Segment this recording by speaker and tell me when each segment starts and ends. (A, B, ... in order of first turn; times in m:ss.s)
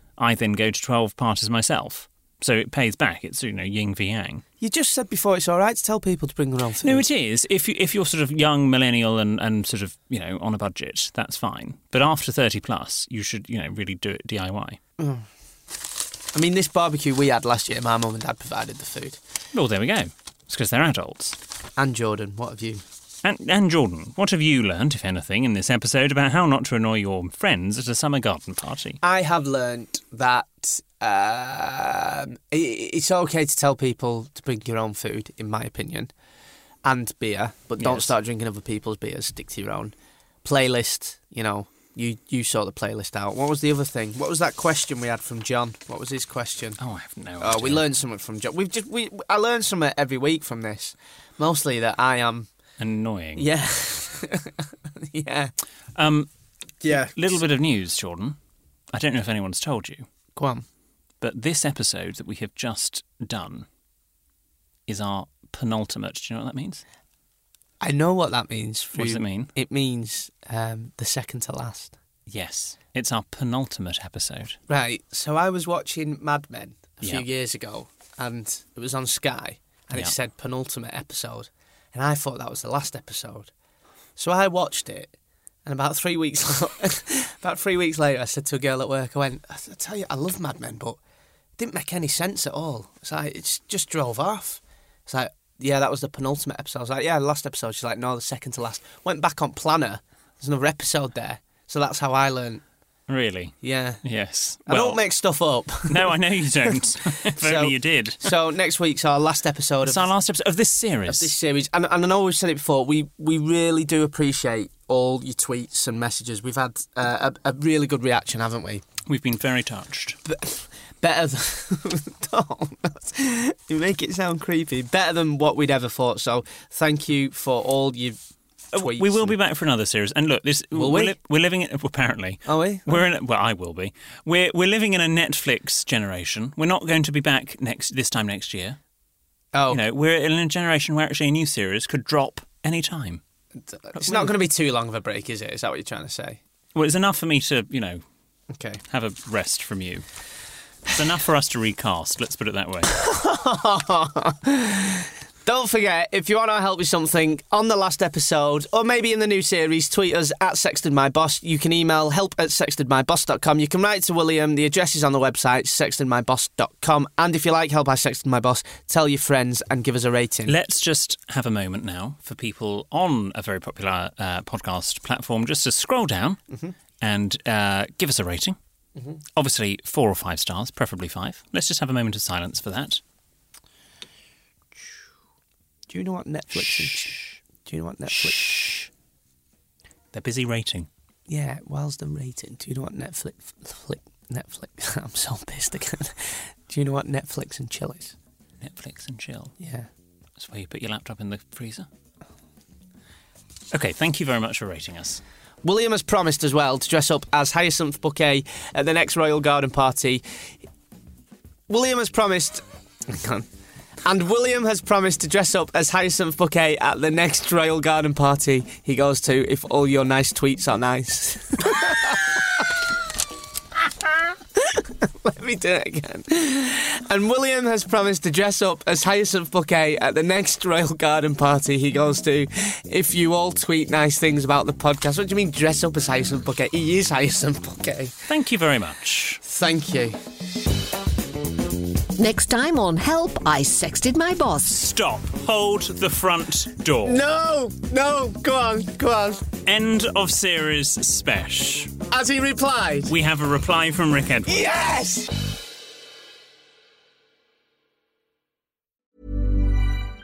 0:00.2-0:04.4 A
0:04.6-0:07.0 B
0:06.8-0:14.8 A
0:15.0-0:15.2 B
0:16.3-0:19.2 B
0:19.5-0:21.4 A
0:21.8-0:22.8 B
0:23.2-0:29.0 A
0:29.0-0:36.1 B
0:36.8-0:46.8 B
0:37.8-0:38.1 A
0:46.8-0:47.8 A
0:47.4-0:52.5 B
0:52.8-0:53.5 A
0:53.4-0:55.5 B
0:56.0-0:56.3 A
0:56.8-0:57.4 B
0:56.9-0:58.4 A
0:58.9-1:00.0 A
1:00.4-1:00.6 B
1:01.2-1:03.7 A
1:04.9-1:06.8 A
1:07.8-1:12.0 B
1:09.0-1:09.5 A
1:12.3-1:14.6 A
1:14.7-1:23.5 B
1:24.2-1:25.1 B
1:25.6-1:31.0 B
1:31.6-1:42.6 B
1:43.1-1:45.0 A
1:43.6-1:44.0 B
1:44.6-1:50.1 B
1:45.9-1:48.3 A
1:49.8-1:51.3 A
1:51.1-1:58.8 B
1:59.0-2:00.2 A
2:00.2-2:08.2 B
2:08.7-2:18.8 A
2:08.7-2:09.4 B
2:10.7-2:11.2 B
2:12.4-2:13.0 B
2:19.5-2:19.8 B
2:19.7-2:23.2 A
2:23.7-2:26.4 B
2:24.0-2:24.3 A
2:26.7-2:28.0 A
2:28.5-2:28.8 B
2:28.9-2:30.0 A
2:30.8-2:32.9 A
2:32.9-2:50.6 B
2:50.4-2:56.4 A
2:57.0-2:58.6 A
2:59.4-3:03.0 A
3:05.9-3:08.6 B
3:06.5-3:07.4 A
3:08.1-3:08.9 A
3:10.1-3:10.9 A
3:11.3-3:18.2 B
3:18.6-3:19.5 A
3:19.6-3:19.9 B
3:20.4-3:21.9 A
3:23.7-3:25.2 A
3:25.6-3:30.2 B
3:31.7-3:33.5 B
3:34.0-3:42.7 B
3:44.1-3:58.1 B
3:58.3-3:59.4 A
3:59.4-4:00.2 B
4:02.2-4:04.8 C
4:04.6-4:07.2 A
4:07.0-4:09.5 B
4:09.6-4:12.0 A
4:12.1-4:13.1 B
4:13.1-4:14.7 A
4:14.4-4:15.3 B